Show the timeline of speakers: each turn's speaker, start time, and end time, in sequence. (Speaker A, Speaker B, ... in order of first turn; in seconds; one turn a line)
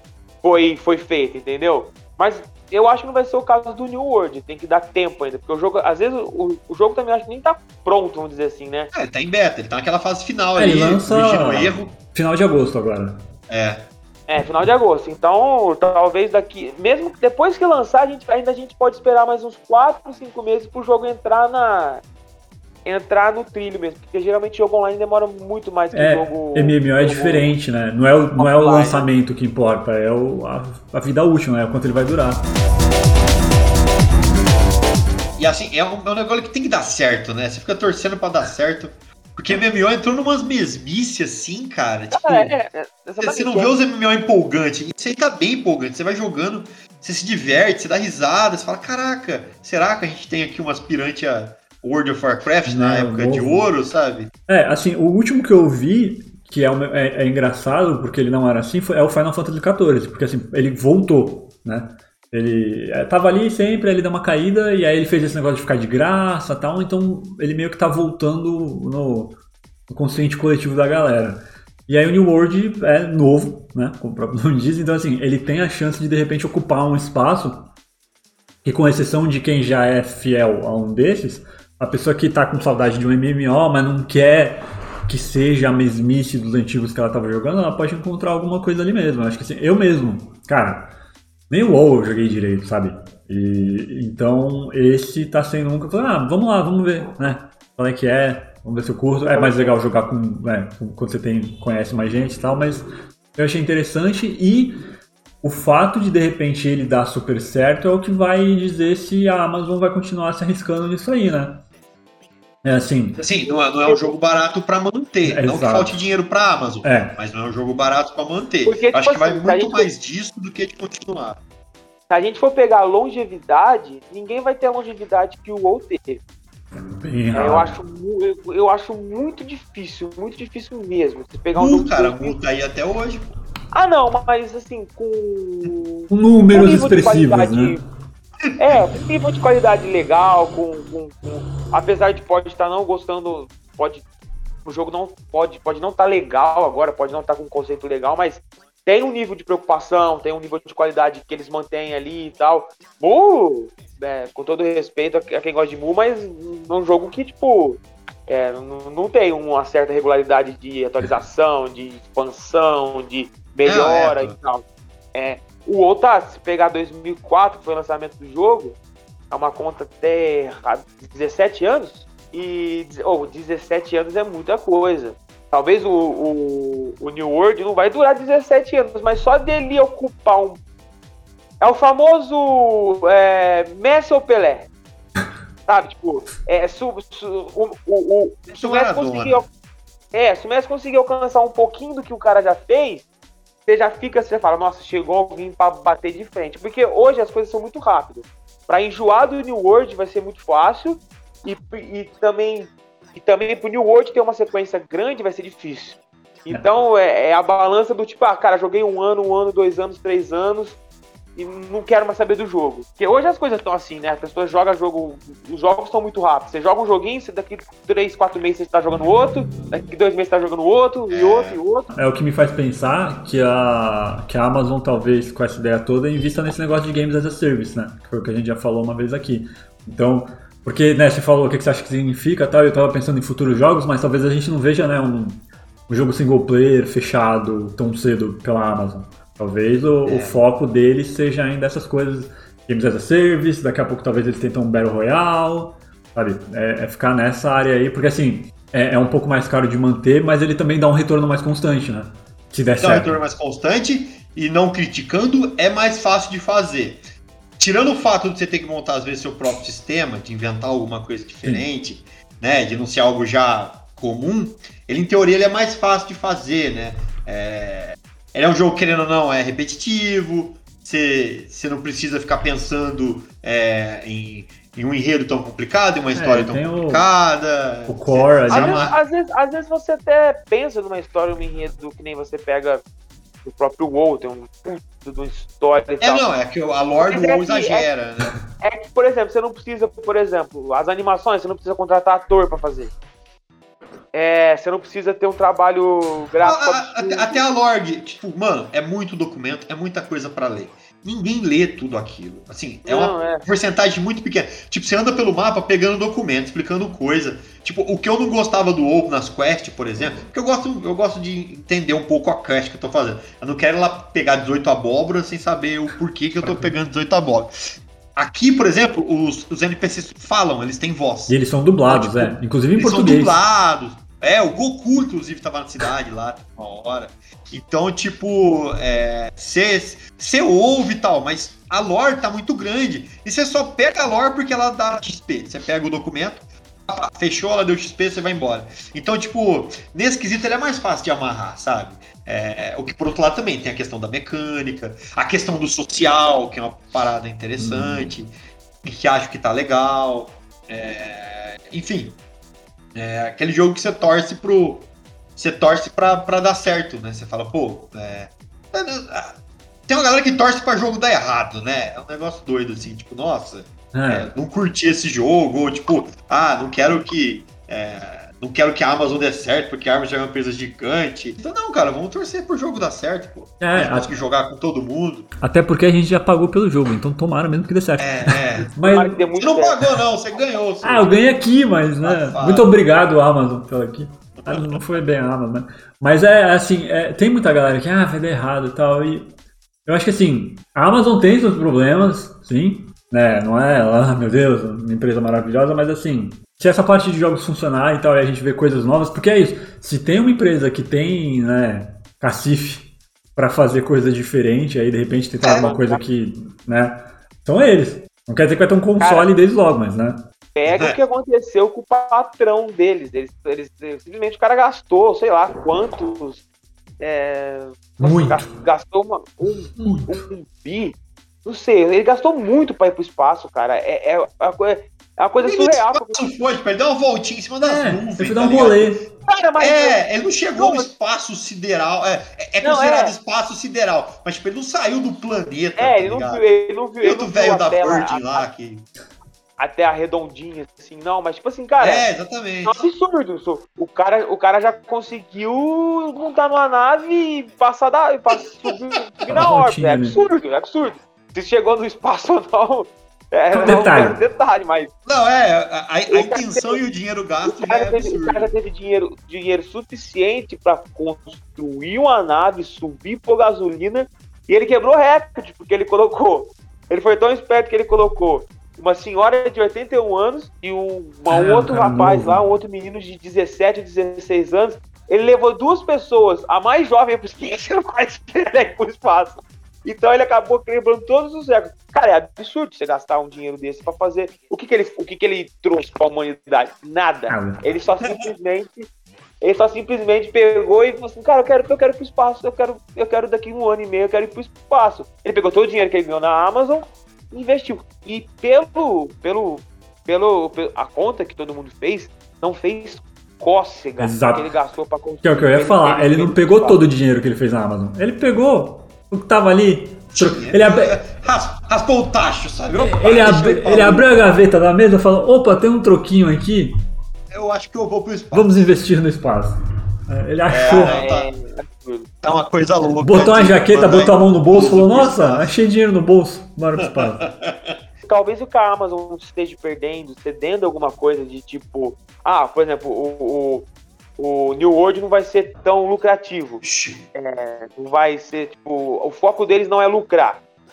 Speaker A: 0.4-8.9
Speaker B: 8.9-11.9
Speaker C: 10.6-13.2
Speaker B: 13.5-13.8
Speaker A: 14.3-22.0
Speaker A: 22.8-27.5
Speaker C: 25.9-32.4
Speaker A: 28.4-29.1
Speaker B: 35.4-42.5
Speaker A: 42.1-43.7
Speaker B: 43.2-54.3
Speaker C: 52.6-53.7
Speaker C: 54.5-77.7
Speaker C: 78.6-90.9
Speaker C: 91.5-104.8
Speaker A: 99.3-99.8
Speaker C: 105.4-111.6
Speaker C: 112.6-113.2
Speaker B: 113.2-121.4
Speaker C: 115.2-116.0
Speaker C: 116.8-117.2
Speaker A: 118.7-119.9
Speaker A: 122.1-126.2
Speaker C: 126.8-127.7
Speaker A: 127.3-132.4
Speaker B: 131.5-133.3
Speaker A: 133.7-137.8
Speaker C: 136.1-137.8
Speaker A: 138.6-144.0
Speaker A: 144.6-168.8
Speaker B: 163.6-164.3
Speaker A: 169.3-180.6
Speaker A: 181.6-184.7
Speaker A: 185.7-189.5
Speaker B: 188.5-189.4
Speaker A: 190.1-193.0
Speaker A: 193.7-210.8
Speaker A: 211.3-221.9
Speaker B: 221.1-221.6
Speaker C: 221.9-253.2
Speaker B: 240.0-240.4
Speaker B: 252.8-257.0
Speaker B: 257.6-279.0
Speaker C: 276.1-277.1
Speaker C: 277.9-278.9
Speaker A: 278.5-282.8
Speaker A: 283.4-286.2
Speaker B: 286.0-288.3
Speaker A: 287.0-287.9
Speaker A: 288.6-292.9
Speaker A: 294.1-297.4
Speaker B: 296.4-317.5
Speaker A: 302.9-303.4
Speaker C: 310.0-310.2
Speaker C: 316.4-316.7
Speaker B: 318.1-348.3
Speaker C: 321.3-323.4
Speaker C: 347.6-348.1
Speaker B: 348.8-352.2
Speaker B: 352.9-375.3
Speaker C: 363.9-364.3
Speaker C: 373.6-374.1
Speaker C: 375.4-379.2
Speaker B: 378.0-378.7
Speaker A: 378.8-379.8
Speaker B: 379.4-381.4
Speaker C: 380.8-389.3
Speaker B: 382.0-382.7
Speaker C: 389.9-410.3
Speaker B: 405.4-405.7
Speaker A: 405.6-406.0
Speaker A: 409.0-409.3
Speaker A: 410.5-416.4
Speaker B: 410.7-411.0
Speaker A: 417.0-426.2
Speaker C: 418.0-418.4
Speaker C: 419.8-420.1
Speaker B: 425.4-429.0
Speaker C: 427.6-429.1
Speaker A: 429.3-430.0
Speaker B: 429.6-436.4
Speaker A: 430.5-430.9
Speaker A: 432.6-433.1
Speaker A: 435.8-438.5
Speaker B: 437.0-438.9
Speaker A: 439.6-442.1
Speaker B: 441.8-442.8
Speaker A: 442.6-454.9
Speaker C: 449.3-450.2
Speaker C: 453.6-454.2
Speaker B: 455.0-458.5
Speaker A: 456.1-456.8
Speaker A: 457.4-488.9
Speaker C: 471.3-472.4
Speaker C: 487.3-487.6
Speaker A: 489.4-506.8
Speaker C: 504.0-504.5
Speaker C: 505.2-511.0
Speaker B: 510.1-514.2
Speaker C: 512.8-516.8
Speaker B: 517.3-518.7
Speaker C: 518.3-519.5
Speaker C: 520.1-521.0
Speaker B: 520.5-521.3
Speaker A: 520.7-522.1
Speaker B: 522.2-525.5
Speaker C: 523.0-527.2
Speaker B: 526.8-527.8
Speaker A: 528.0-536.6
Speaker B: 536.6-537.0
Speaker A: 537.1-540.4